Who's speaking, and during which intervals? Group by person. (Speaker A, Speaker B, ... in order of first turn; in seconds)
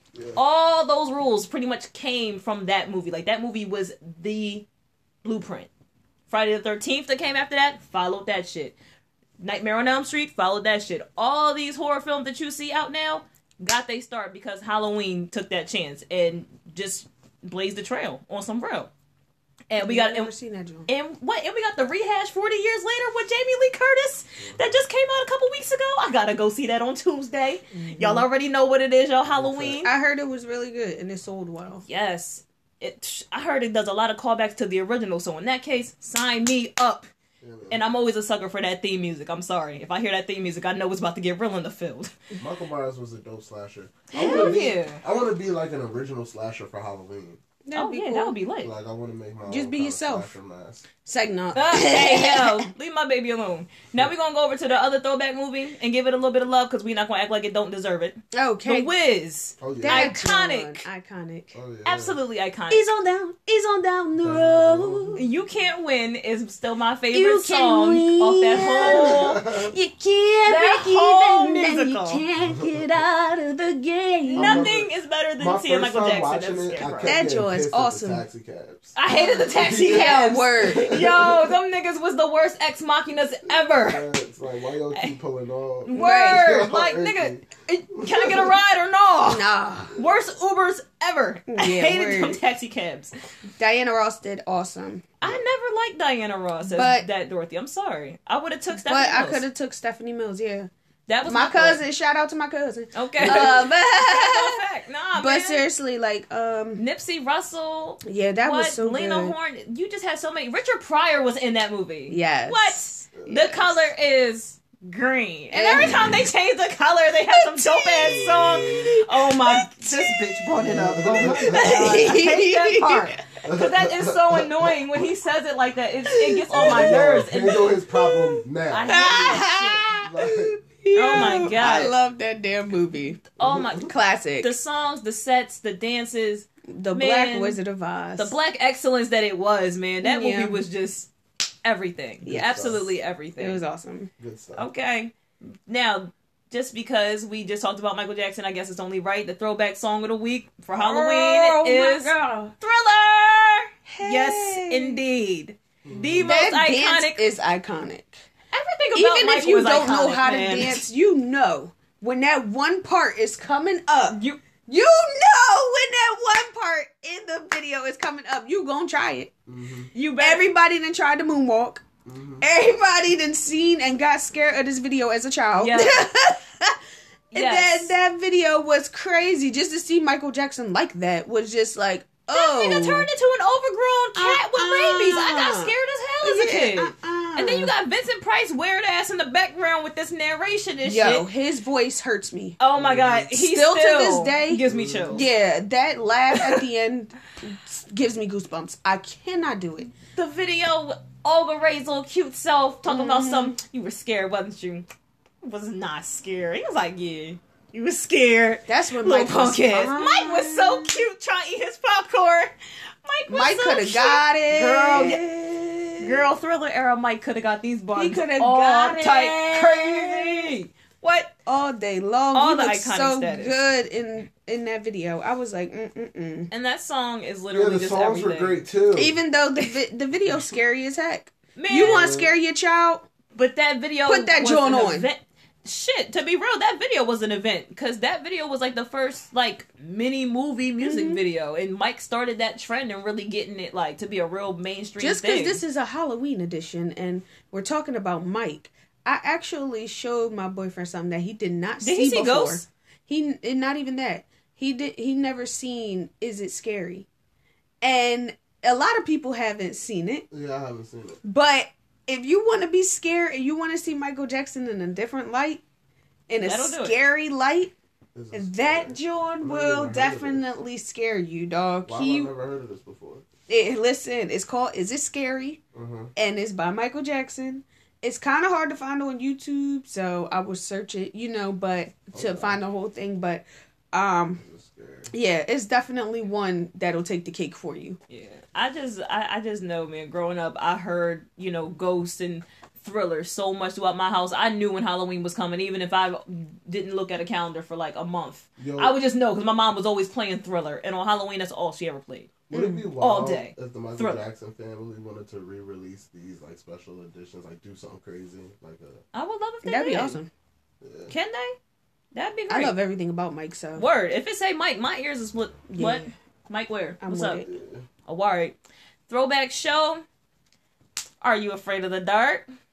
Speaker A: 0.1-0.4, 24.4-24.8, 29.3-29.8, 37.4-37.8, 42.4-47.4, 48.6-50.9, 59.6-60.1, 61.5-62.2, 64.2-65.2, 68.8-69.7, 72.4-72.8, 74.4-79.0, 79.5-81.4, 83.7-88.6, 103.2-103.6, 115.7-116.2, 118.0-118.9, 120.6-121.8, 123.5-124.8, 126.5-130.6, 131.1-131.4, 133.4-133.9, 142.2-142.9, 144.2-144.7, 155.8-156.4, 169.5-169.9, 172.1-172.4, 192.8-193.3, 194.6-195.3, 227.5-229.2, 231.9-232.3, 260.3-261.2, 268.1-270.5, 271.8-273.2, 275.7-276.1, 282.1-282.6, 284.4-285.1, 298.6-298.9, 302.5-309.0, 310.8-311.1, 317.4-317.9
Speaker B: 0.3-4.7, 5.2-5.7, 6.3-8.8, 9.4-18.9, 19.7-20.3, 20.9-29.9, 31.8-37.1, 37.7-42.1, 44.1-45.0, 47.7-48.7, 51.5-60.8, 61.8-62.9, 65.1-69.3, 70.4-72.2, 74.3-77.2, 79.0-84.1, 85.8-93.1, 95.2-99.4, 101.1-101.8, 102.9-105.6, 106.8-127.8, 128.7-129.9, 130.9-131.9, 133.3-133.8, 134.4-137.6, 138.2-141.1, 141.6-143.6, 144.6-145.1, 145.7-157.2, 158.5-160.8, 164.1-164.4, 169.9-170.5, 175.6-176.0, 177.3-177.9, 182.3-191.3, 192.6-195.3, 200.1-204.8, 205.4-212.5, 213.0-215.2, 216.0-221.3, 222.3-223.6, 226.5-228.6, 231.6-232.1, 233.3-245.6, 251.8-252.7, 266.4-267.0, 288.1-302.4, 303.0-304.2, 309.1-310.2, 311.1-311.6, 312.1-312.7, 313.7-317.4, 318.1-318.5, 319.1-320.0, 321.2-322.4
Speaker C: 19.8-20.9, 27.7-28.2, 29.8-31.8, 44.2-44.5, 47.6-48.4, 49.5-50.3, 51.0-52.7, 58.3-58.9, 59.8-61.6, 62.7-65.2, 67.1-74.8, 77.0-78.2, 79.0-81.0, 85.9-86.5, 89.2-90.0, 91.5-92.4, 93.6-95.0, 96.6-97.1, 98.7-100.7, 101.2-104.6, 105.1-106.8, 108.0-109.3, 112.1-113.9, 115.5-116.2, 117.5-120.2, 121.2-123.2, 126.1-126.9, 127.9-134.5, 136.7-138.4, 140.0-140.6, 142.2-142.8, 143.4-144.1, 150.7-152.5, 154.0-155.0, 156.2-158.2, 158.9-169.3, 170.2-171.8, 172.4-176.8, 177.3-183.1, 184.1-187.7, 190.8-192.6, 193.3-199.9, 202.9-203.6, 208.7-211.0, 213.3-216.3, 217.9-220.5, 221.4-226.5, 228.9-233.1, 234.0-235.1, 240.8-241.2, 245.0-257.1, 257.8-260.2, 261.2-265.6, 266.3-267.7, 268.3-272.3, 273.5-275.6, 276.1-284.4, 285.1-288.0, 302.5-302.9, 309.6-310.3, 312.5-313.8, 315.7-316.1, 317.0-317.5